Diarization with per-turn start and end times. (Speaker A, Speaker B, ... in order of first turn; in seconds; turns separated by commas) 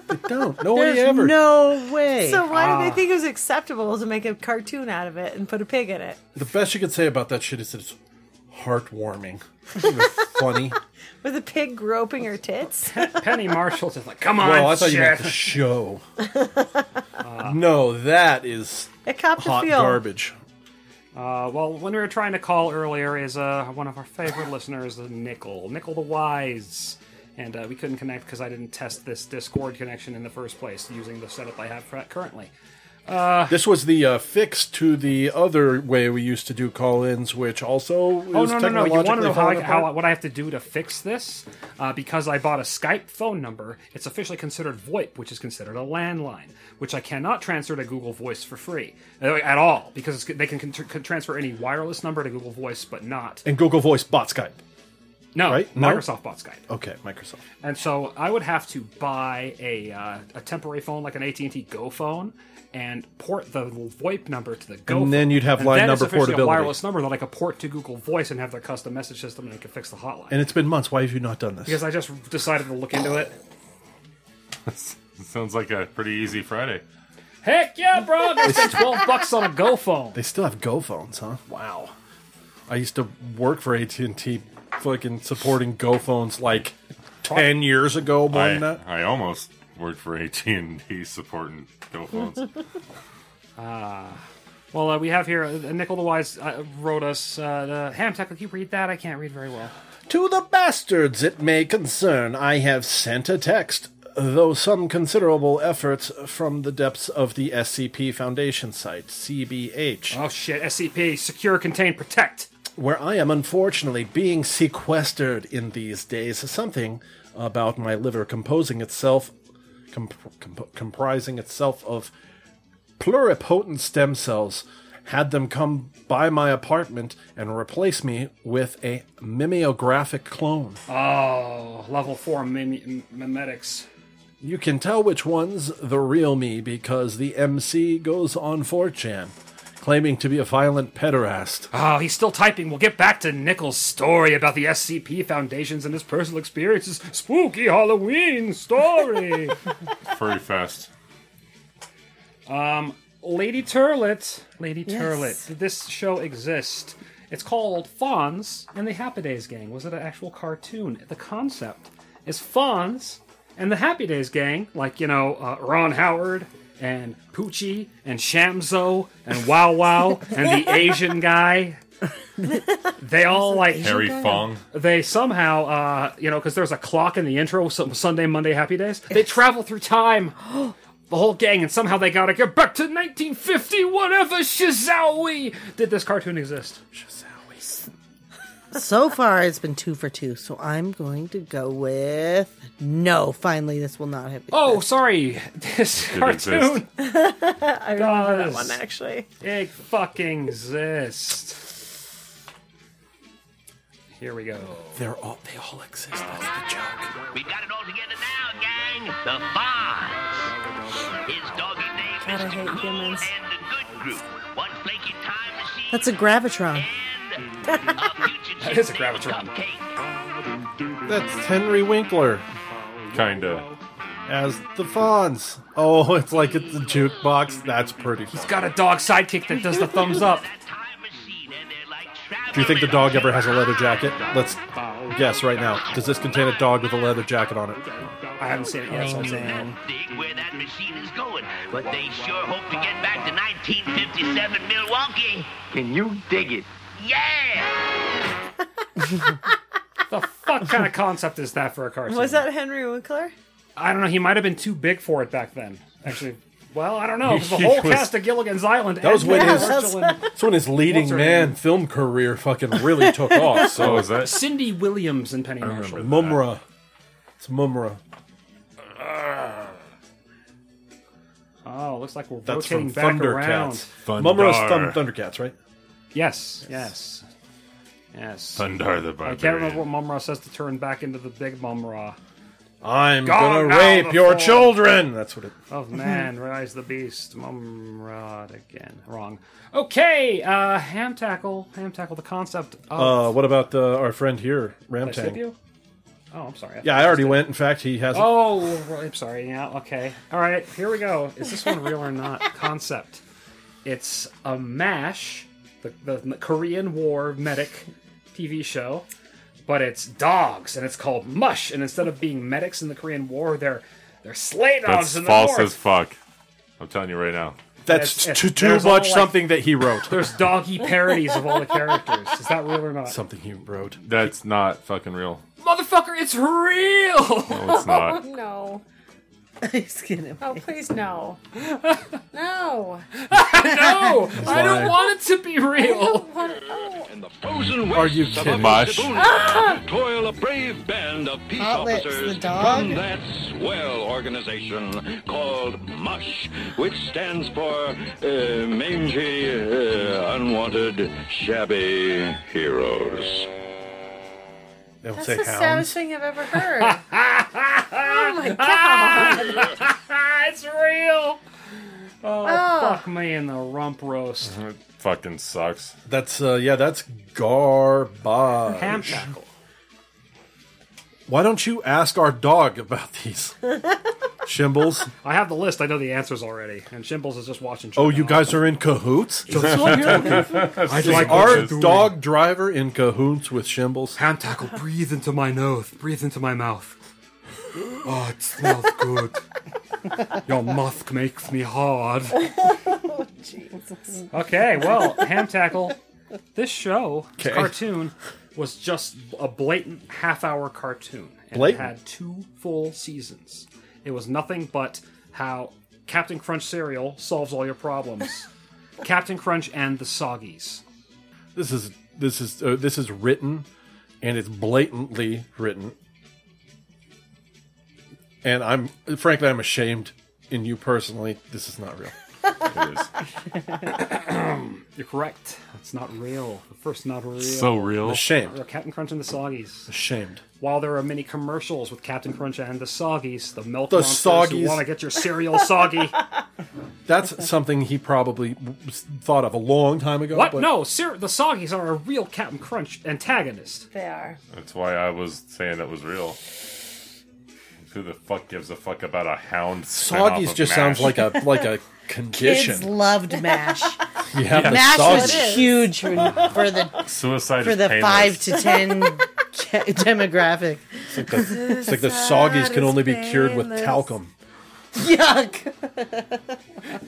Speaker A: 0.1-1.6, Speaker B: 0.7-2.5, Speaker C: 2.2-6.2, Speaker D: 2.5-3.0, Speaker A: 6.4-8.0, Speaker A: 8.5-10.8, Speaker C: 11.2-12.9, Speaker D: 12.8-15.6, Speaker A: 14.4-16.0, Speaker C: 16.3-16.7, Speaker D: 17.2-17.6, Speaker A: 17.4-20.4, Speaker C: 19.1-20.0, Speaker D: 21.1-32.5, Speaker D: 33.1-33.6, Speaker A: 33.5-40.0, Speaker D: 38.3-53.4, Speaker A: 53.5-54.6, Speaker D: 55.3-56.6, Speaker A: 55.4-56.1, Speaker A: 56.7-57.4, Speaker D: 57.6-70.4, Speaker A: 64.9-66.8, Speaker A: 70.3-71.8, Speaker D: 71.7-73.4, Speaker E: 74.7-76.8, Speaker D: 77.4-80.2, Speaker A: 78.4-79.0, Speaker A: 80.2-81.9, Speaker A: 82.7-88.8, Speaker D: 87.3-87.5, Speaker E: 88.3-92.5, Speaker D: 93.6-99.7, Speaker A: 100.1-110.2, Speaker D: 110.1-112.5, Speaker A: 112.8-119.3, Speaker A: 119.9-122.1, Speaker A: 123.0-130.8, Speaker D: 130.9-133.9, Speaker A: 134.4-141.7, Speaker D: 141.7-149.6, Speaker E: 150.1-150.9, Speaker D: 152.5-171.8, Speaker B: 154.9-155.4, Speaker D: 173.0-174.0, Speaker B: 173.4-174.5, Speaker E: 173.8-174.6, Speaker D: 174.7-180.5, Speaker D: 181.1-186.8, Speaker A: 186.9-187.9, Speaker B: 188.7-194.8, Speaker D: 194.5-196.9, Speaker E: 196.1-196.8, Speaker C: 197.0-199.3, Speaker D: 198.0-198.8, Speaker D: 199.4-201.7, Speaker D: 204.2-205.0, Speaker A: 205.0-207.1, Speaker F: 207.3-210.3, Speaker F: 211.2-216.1, Speaker C: 212.2-213.3, Speaker B: 215.9-216.9, Speaker F: 216.7-220.0, Speaker D: 218.6-219.5, Speaker A: 221.1-222.5, Speaker E: 223.1-223.7, Speaker A: 224.3-228.7, Speaker D: 228.3-230.5, Speaker F: 230.1-234.3, Speaker A: 232.5-237.9, Speaker D: 238.4-239.8, Speaker A: 238.9-239.6, Speaker F: 239.8-247.9, Speaker D: 250.1-252.5, Speaker C: 252.1-253.3, Speaker D: 253.8-260.2, Speaker E: 257.2-258.1, Speaker A: 259.0-264.3, Speaker C: 259.2-260.2, Speaker D: 260.8-261.6, Speaker E: 263.6-264.4, Speaker D: 264.1-266.1, Speaker E: 265.6-266.5, Speaker A: 266.0-266.6, Speaker A: 267.4-268.0, Speaker D: 271.6-273.9, Speaker A: 272.5-275.6, Speaker E: 274.1-275.0, Speaker D: 276.1-277.3, Speaker D: 278.1-278.7, Speaker E: 278.6-279.9, Speaker D: 279.2-282.2, Speaker A: 282.8-285.6, Speaker D: 283.2-284.8, Speaker D: 285.7-293.4, Speaker A: 292.9-295.4, Speaker D: 295.0-295.6, Speaker D: 296.3-297.5, Speaker A: 296.8-298.6, Speaker D: 298.1-303.2, Speaker D: 303.8-309.1, Speaker D: 309.7-315.8, Speaker E: 314.9-316.2, Speaker E: 316.8-317.6, Speaker A: 317.9-320.3, Speaker D: 317.9-319.5, Speaker D: 320.1-323.2, Speaker A: 323.1-324.0, Speaker E: 324.0-325.4, Speaker D: 325.6-327.7, Speaker E: 327.5-328.2, Speaker C: 327.6-328.8, Speaker B: 329.6-330.7, Speaker C: 330.4-331.4, Speaker D: 331.6-332.2, Speaker C: 332.3-333.1, Speaker D: 333.2-336.3, Speaker A: 334.4-335.0, Speaker C: 334.5-335.0, Speaker C: 335.8-337.1, Speaker G: 336.4-353.5, Speaker A: 337.9-339.0, Speaker E: 338.4-339.1, Speaker C: 339.2-339.8, Speaker B: 341.6-343.0, Speaker A: 355.0-356.0, Speaker C: 355.2-357.0, Speaker D: 356.8-361.4, Speaker C: 358.0-359.7, Speaker D: 362.2-364.5, Speaker C: 362.4-363.0, Speaker E: 364.4-365.9, Speaker A: 366.1-369.3, Speaker D: 368.7-369.5, Speaker A: 371.3-373.8, Speaker A: 374.4-375.1, Speaker D: 375.2-378.5, Speaker A: 378.0-384.2, Speaker D: 379.5-382.2, Speaker E: 379.6-382.0, Speaker D: 384.2-387.0, Speaker D: 388.0-389.4, Speaker D: 390.4-392.5, Speaker C: 393.5-393.8, Speaker D: 394.3-396.0, Speaker D: 396.5-408.5, Speaker A: 397.4-397.8, Speaker A: 401.5-401.9, Speaker D: 409.0-410.8, Speaker A: 411.6-413.7, Speaker A: 414.2-415.9, Speaker A: 418.4-422.1, Speaker E: 422.7-423.1, Speaker D: 423.9-429.9, Speaker E: 427.4-428.3, Speaker A: 428.0-428.6, Speaker A: 429.9-430.4, Speaker D: 430.6-436.2, Speaker A: 433.9-434.9, Speaker A: 437.1-440.7, Speaker D: 440.3-443.9, Speaker C: 443.9-444.4, Speaker E: 444.5-446.4, Speaker E: 447.9-451.4, Speaker A: 449.9-452.9, Speaker B: 452.3-454.0, Speaker A: 454.3-455.7, Speaker E: 454.5-454.9, Speaker B: 454.6-461.9, Speaker C: 454.9-456.4, Speaker E: 457.0-458.7, Speaker A: 461.1-464.3, Speaker C: 461.5-464.1, Speaker B: 464.9-466.4